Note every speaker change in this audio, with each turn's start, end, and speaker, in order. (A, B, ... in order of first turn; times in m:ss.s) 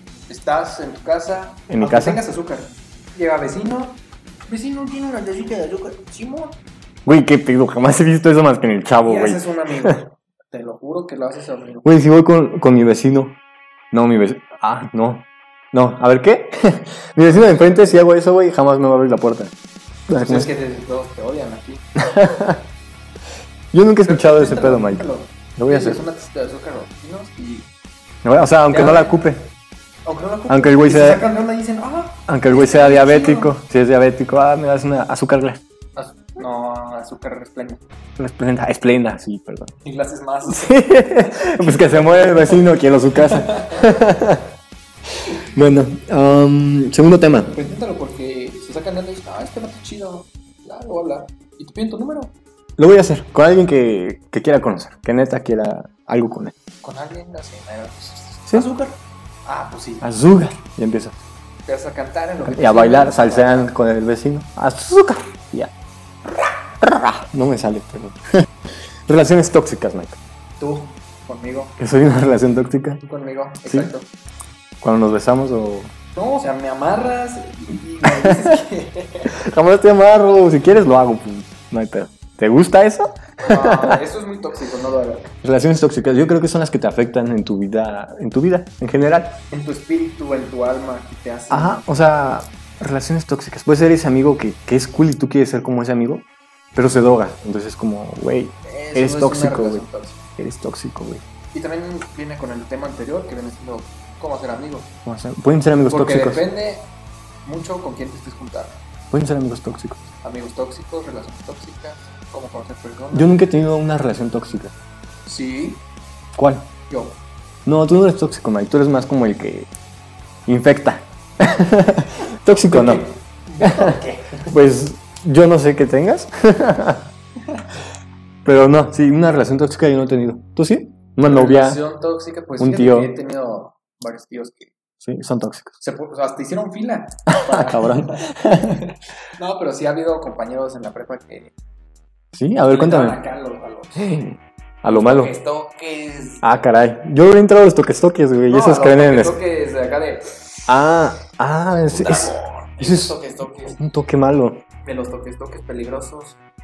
0:00.3-0:06.6 A
0:01.7-0:02.2 B
0:07.1-0:10.0 B
0:09.0-0:11.9 A
0:11.8-0:13.4 B
0:13.9-0:19.5 B
0:20.1-0:20.5 B
0:20.2-0:21.8 A
0:22.0-0:22.6 B
0:23.7-0:25.0 B
0:24.0-0:27.7 A
0:25.6-0:26.0 B
0:28.2-0:29.5 B
0:28.7-0:29.2 A
0:30.1-0:33.5 A
0:30.5-0:31.2 B
0:32.3-0:35.6 B
0:36.0-0:37.8 A
0:38.2-0:39.7 B
0:39.8-0:43.8 A
0:40.5-0:44.5 B
0:45.3-0:47.6 B
0:47.5-0:52.3 A
0:52.8-0:56.5 B
0:56.8-1:00.1 A
1:00.0-1:01.2 B
1:01.7-1:03.7 A
1:02.4-1:05.7 B
1:06.8-1:08.3 B
1:09.1-1:10.2 B
1:10.6-1:11.8 A
1:11.8-1:13.0 B
1:13.0-1:14.1 A
1:13.6-1:13.9 B
1:14.8-1:15.9 B
1:16.2-1:19.3 A
1:18.0-1:18.6 B
1:19.3-1:24.0 B
1:23.4-1:25.3 A
1:25.4-1:29.4 B
1:29.5-1:31.8 A
1:31.5-1:39.8 B
1:38.6-1:40.2 A
1:40.4-1:41.2 B
1:41.5-1:44.9 A
1:45.0-1:46.5 B
1:45.9-1:46.9 A
1:47.4-1:48.8 A
1:49.1-1:50.0 B
1:50.2-1:53.4 A
1:53.1-1:54.7 B
1:55.3-1:55.8 A
1:56.4-1:56.7 B
1:56.9-1:57.2 A
1:57.6-1:59.7 B
2:00.5-2:07.1 B
2:02.6-2:04.5 A
2:08.4-2:11.8 B
2:11.2-2:14.7 A
2:12.6-2:13.1 B
2:15.0-2:15.8 B
2:15.8-2:21.5 A
2:17.3-2:18.8 B
2:22.3-2:23.2 B
2:22.7-2:24.2 A
2:24.0-2:25.3 B
2:24.9-2:26.6 A
2:26.4-2:29.4 B
2:28.5-2:30.4 A
2:30.7-2:33.2 B
2:31.9-2:33.8 A
2:33.8-2:34.6 B
2:34.8-2:36.4 A